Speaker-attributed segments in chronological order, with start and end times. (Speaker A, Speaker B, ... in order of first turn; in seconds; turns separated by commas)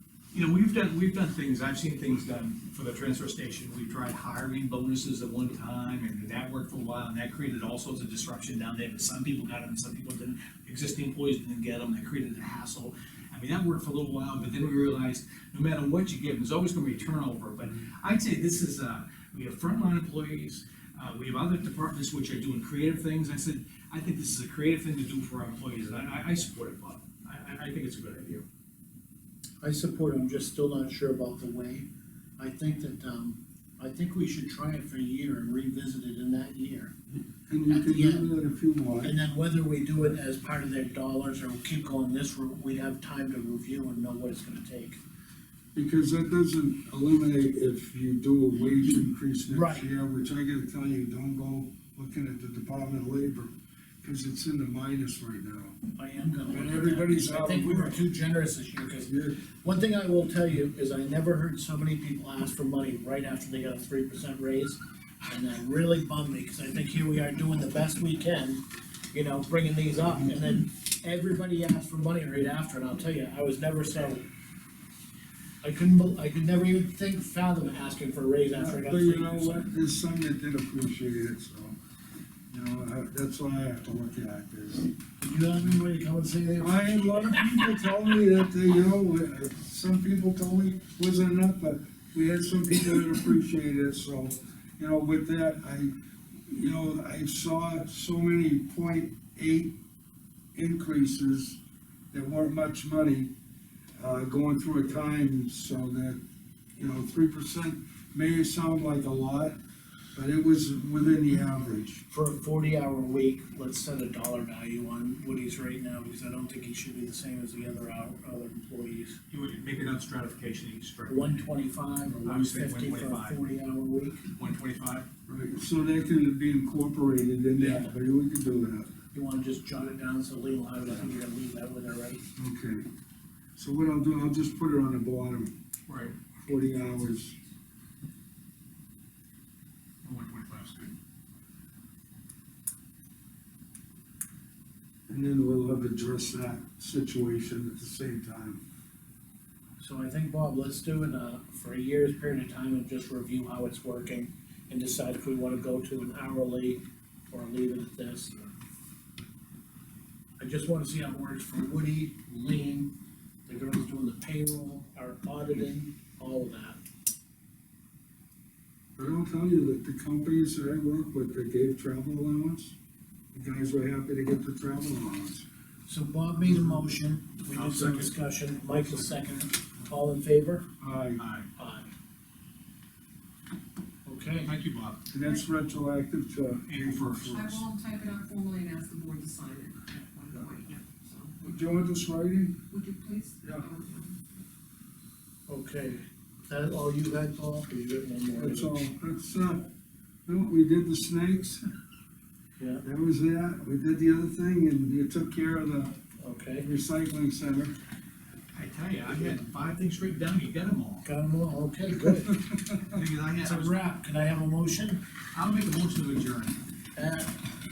Speaker A: 0.3-28.4, Speaker B: 29.6-36.9, Speaker C: 37.5-39.1, Speaker B: 37.7-38.3, Speaker B: 39.0-45.0, Speaker C: 45.8-55.8, Speaker B: 49.5-49.9, Speaker B: 56.0-74.3, Speaker C: 56.5-58.0, Speaker C: 59.1-59.4, Speaker B: 75.6-79.7, Speaker C: 78.5-81.8, Speaker C: 82.5-84.9, Speaker B: 85.2-87.7, Speaker C: 86.6-95.9, Speaker C: 96.5-99.8, Speaker C: 100.5-101.6, Speaker C: 102.1-103.3, Speaker C: 104.0-106.2, Speaker C: 106.8-109.6, Speaker C: 110.2-112.1, Speaker B: 112.1-119.2, Speaker A: 119.3-121.5, Speaker B: 121.1-124.2, Speaker A: 122.2-123.4, Speaker A: 124.3-125.1, Speaker C: 125.3-128.9, Speaker B: 127.6-127.9, Speaker B: 129.1-132.2, Speaker C: 132.4-132.9, Speaker C: 133.6-135.5, Speaker A: 135.9-136.2, Speaker C: 136.4-137.4, Speaker A: 140.0-140.9, Speaker C: 145.1-148.6, Speaker B: 149.8-158.5, Speaker B: 160.4-162.9, Speaker B: 163.5-166.8, Speaker C: 169.0-172.7, Speaker C: 173.3-175.4, Speaker B: 175.9-180.7, Speaker A: 177.5-178.1, Speaker C: 180.8-181.2, Speaker A: 181.2-181.5, Speaker B: 181.6-181.9, Speaker B: 184.1-184.5, Speaker A: 184.4-185.1, Speaker C: 185.1-187.6, Speaker A: 186.7-187.6, Speaker D: 187.3-191.5, Speaker C: 191.4-192.6, Speaker D: 192.7-194.4, Speaker C: 193.4-193.7, Speaker B: 195.5-198.8, Speaker C: 198.3-199.7, Speaker C: 200.3-201.6, Speaker C: 202.8-206.0, Speaker B: 206.2-206.7, Speaker C: 206.6-207.7, Speaker A: 208.5-211.1, Speaker B: 211.0-212.4, Speaker C: 212.3-212.9, Speaker A: 212.9-213.8, Speaker B: 213.4-215.0, Speaker A: 215.3-216.6, Speaker B: 216.9-217.6